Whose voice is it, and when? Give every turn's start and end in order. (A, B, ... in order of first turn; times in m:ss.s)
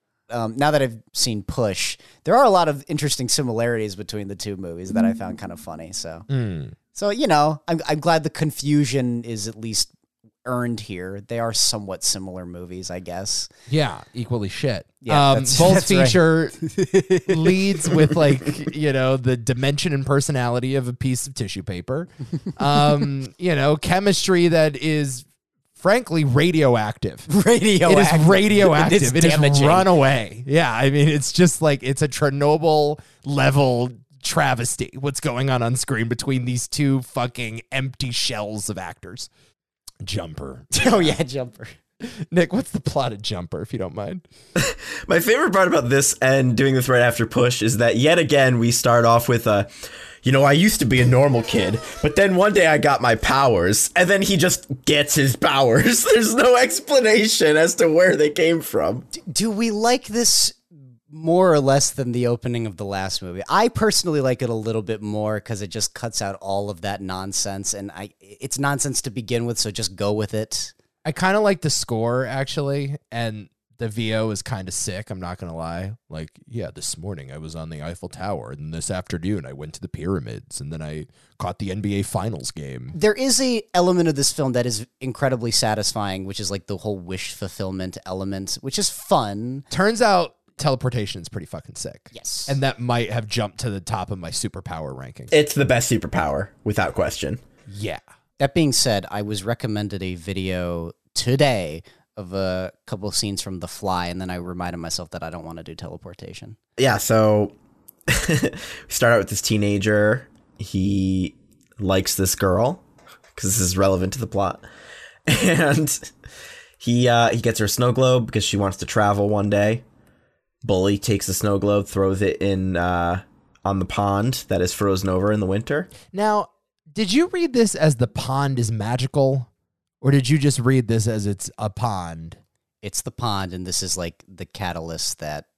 0:00.3-0:06.3 A
0:06.3-0:06.7 B
0:06.9-0:09.9 A
0:10.4-0:13.5 A
0:13.7-0:16.7 B
0:15.0-0:18.1 A
0:17.2-0:25.2 B
0:25.8-0:27.3 B
0:27.3-0:29.9 A
0:27.8-0:39.3 B
0:40.0-0:41.2 B
0:40.7-0:41.7 A
0:42.3-0:44.2 B
0:44.6-0:49.7 C
0:50.2-0:59.1 C
0:59.1-1:00.6 A
1:01.1-1:10.7 A
1:11.0-1:22.9 B
1:22.9-1:29.6 A
1:29.7-1:35.3 B
1:32.1-1:32.5 A
1:35.3-1:37.4 C
1:37.7-1:38.0 B
1:38.4-1:46.6 A
1:46.8-1:47.5 C
1:48.1-1:52.8 C
1:53.4-1:54.6 C
1:55.2-1:56.1 C
1:56.8-1:59.8 C
2:00.6-2:05.9 C
2:06.1-2:09.5 B
2:10.0-2:12.4 B
2:12.8-2:15.4 A